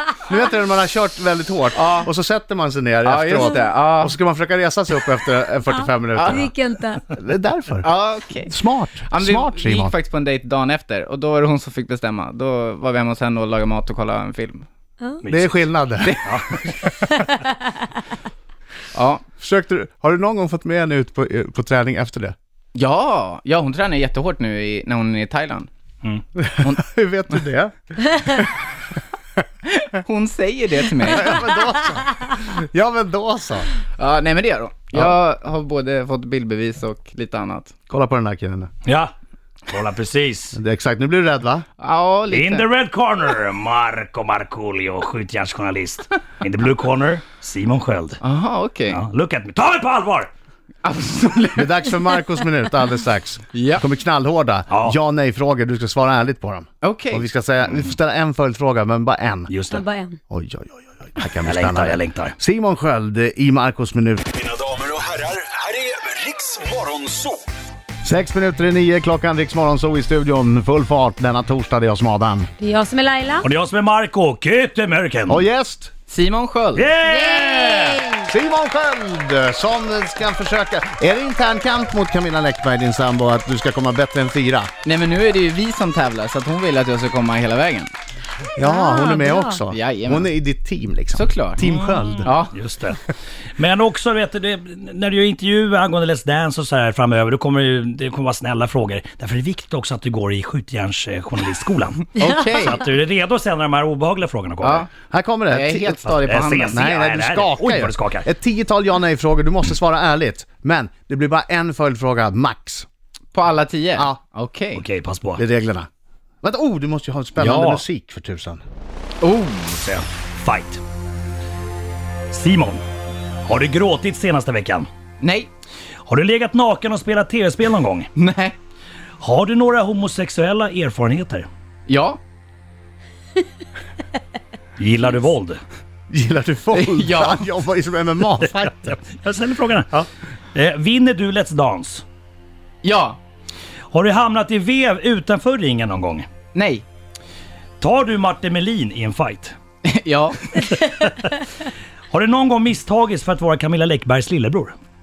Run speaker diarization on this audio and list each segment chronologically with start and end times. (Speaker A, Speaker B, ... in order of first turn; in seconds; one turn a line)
Speaker A: 0.1-6.5
Speaker B: 1.7-2.1
Speaker B: 3.0-4.2
Speaker C: 5.8-7.0
Speaker B: 6.2-6.4
Speaker A: 7.1-7.9
Speaker B: 7.8-8.5
Speaker A: 8.5-9.9
Speaker B: 9.1-14.7
Speaker D: 15.2-17.0
Speaker A: 15.3-16.2
Speaker B: 16.0-16.7
Speaker C: 16.9-18.0
Speaker B: 18.9-19.3
Speaker A: 19.4-22.4
Speaker B: 22.8-25.7
Speaker A: 26.4-28.7
Speaker B: 29.7-31.4
Speaker A: 31.0-33.7
Speaker C: 31.3-32.3
Speaker B: 34.0-37.7
Speaker A: 37.9-38.7
Speaker D: 38.9-39.1
Speaker D: 39.7-40.6
Speaker A: 40.5-41.6
Speaker B: 41.8-42.7
Speaker D: 42.3-48.2
Speaker B: 48.2-49.0
Speaker D: 48.9-50.3
Speaker B: 50.8-51.9
Speaker A: 51.6-59.5
Speaker B: 53.5-53.8
Speaker D: 54.7-55.0
Speaker B: 56.8-57.3
Speaker D: 59.5-59.8
Speaker C: 59.7-60.2
Speaker A: 60.3-64.2
Speaker D: 61.4-62.4
Speaker E: 64.6-66.9
Speaker A: 68.0-72.5
Speaker C: 72.6-73.5
Speaker D: 73.4-75.5
Speaker A: 75.3-75.9
Speaker B: 76.1-76.9
Speaker D: 76.8-78.0
Speaker C: 77.0-78.3
Speaker A: 78.3-84.7
Speaker B: 84.8-87.9
Speaker A: 88.6-92.3
Speaker C: 88.6-89.6
Speaker B: 89.7-90.3
Speaker B: 91.1-91.6
Speaker D: 91.6-93.0
Speaker B: 92.2-92.5
Speaker D: 93.6-104.9
Speaker B: 102.2-102.8
Speaker A: 102.2-102.7
Speaker B: 104.6-104.9
Speaker A: 105.1-112.9
Speaker B: 105.5-106.9
Speaker D: 106.1-108.3
Speaker B: 113.3-114.8
Speaker D: 114.7-115.4
Speaker A: 115.4-115.9
Speaker A: 116.4-118.6
Speaker D: 117.4-117.8
Speaker B: 119.2-120.0
Speaker D: 119.9-120.8
Speaker D: 122.3-122.8
Speaker D: 123.5-124.9
Speaker B: 125.2-125.5
Speaker D: 126.1-128.1
Speaker B: 128.2-128.6
Speaker D: 129.2-131.5
Speaker B: 131.9-132.2
Speaker D: 134.8-135.6
Speaker A: 136.1-139.0
Speaker B: 136.7-137.4
Speaker D: 138.4-142.0
Speaker B: 142.8-143.2
Speaker D: 143.9-146.3
Speaker B: 146.5-146.8
Speaker D: 147.8-149.6
Speaker B: 149.8-150.7
Speaker D: 150.5-151.5
Speaker D: 152.1-154.8